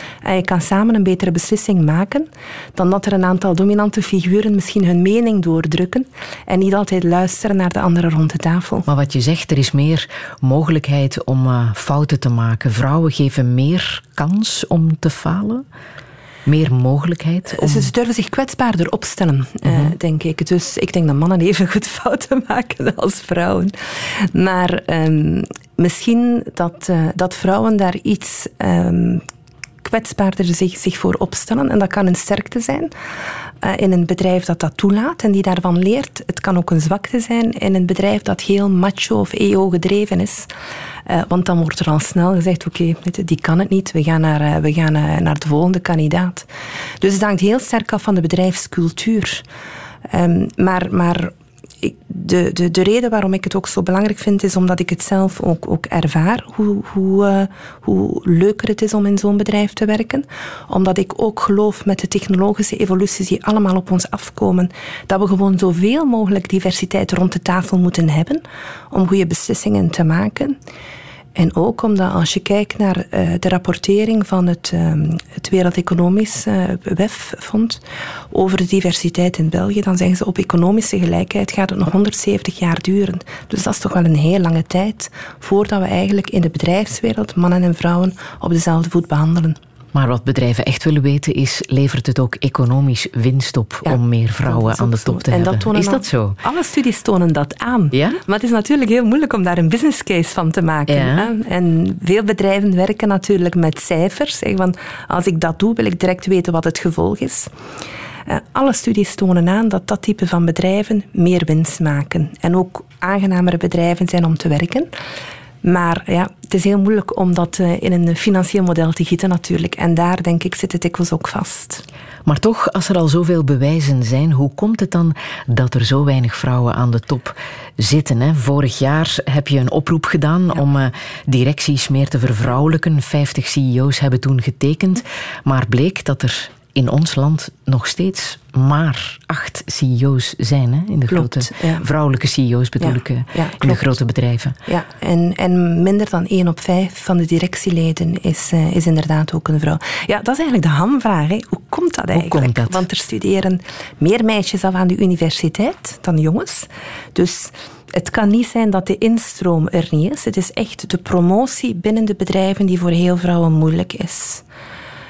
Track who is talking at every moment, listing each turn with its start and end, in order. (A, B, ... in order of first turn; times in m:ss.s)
0:00.2-0:08.9 A
0:08.9-0:15.7 B
0:16.5-0:17.9 B
0:17.5-0:29.2 A
0:19.6-0:19.9 B
0:29.8-0:32.9 A
0:33.6-0:40.5 A
0:41.1-0:46.5 A
0:47.0-0:49.4 A
0:50.1-1:10.6 A
1:11.4-1:17.8 A
1:18.3-1:29.6 A
1:29.9-1:36.4 B
1:33.8-1:47.5 A
1:37.9-1:38.2 B
1:40.9-1:41.3 B
1:48.3-1:54.9 A
1:55.6-2:01.8 A
2:02.3-2:24.6 B
2:21.1-2:21.9 A
2:22.8-2:23.8 A
2:24.7-2:44.4 A
2:32.1-2:32.8 B